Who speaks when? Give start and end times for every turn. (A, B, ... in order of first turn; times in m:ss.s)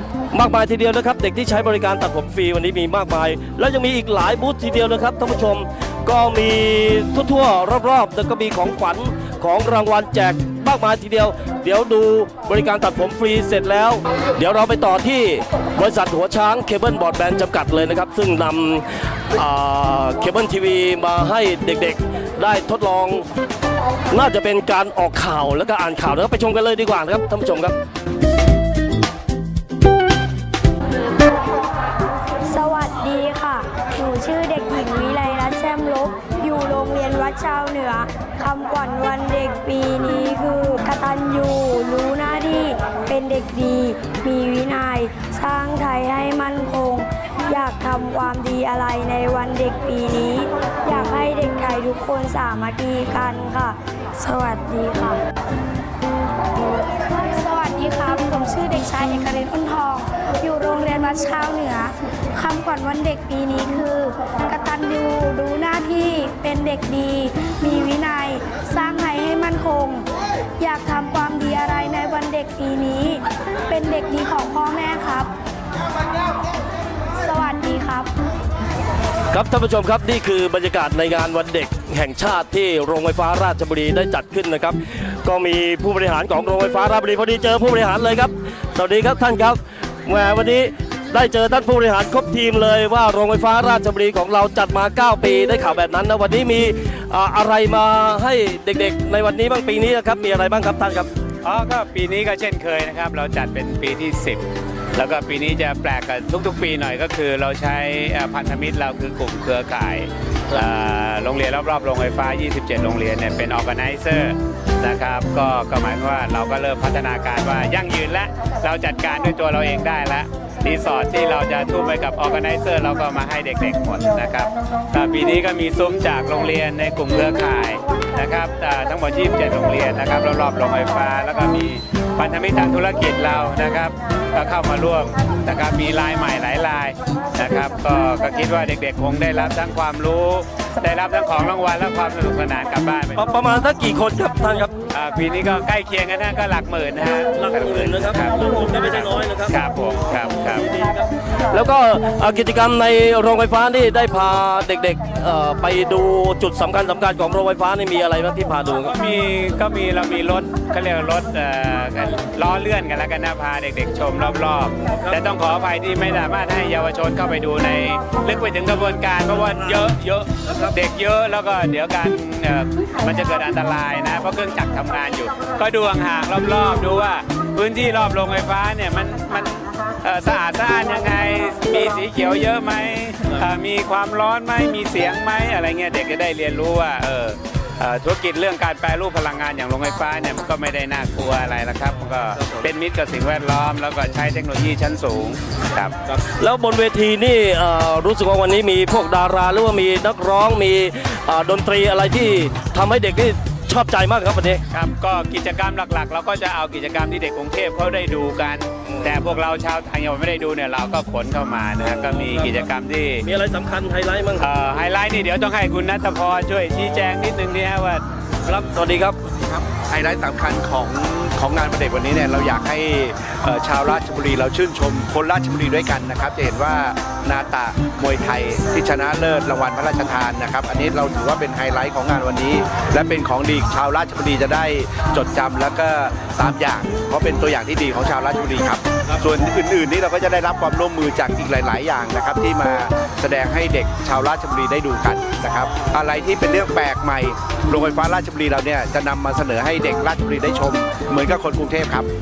0:00.3-0:23.3 A
0:24.1-0:27.8 A
0:32.5-0:55.2 B
0:57.2-1:10.1 B
1:10.6-1:15.3 B
1:17.2-1:18.1 B
1:19.3-1:41.1 A
1:41.4-2:23.2 C
2:23.2-2:24.7 A
2:24.9-2:28.8 C
2:27.3-2:29.6 A
2:29.5-2:30.7 C
2:30.2-2:38.9 A
2:38.7-3:16.0 C
3:16.1-3:24.6 A
3:24.7-3:33.2 C
3:31.9-3:32.6 A
3:33.2-3:34.5 A
3:34.4-3:38.0 C
3:38.4-3:39.2 A
3:39.9-4:12.1 D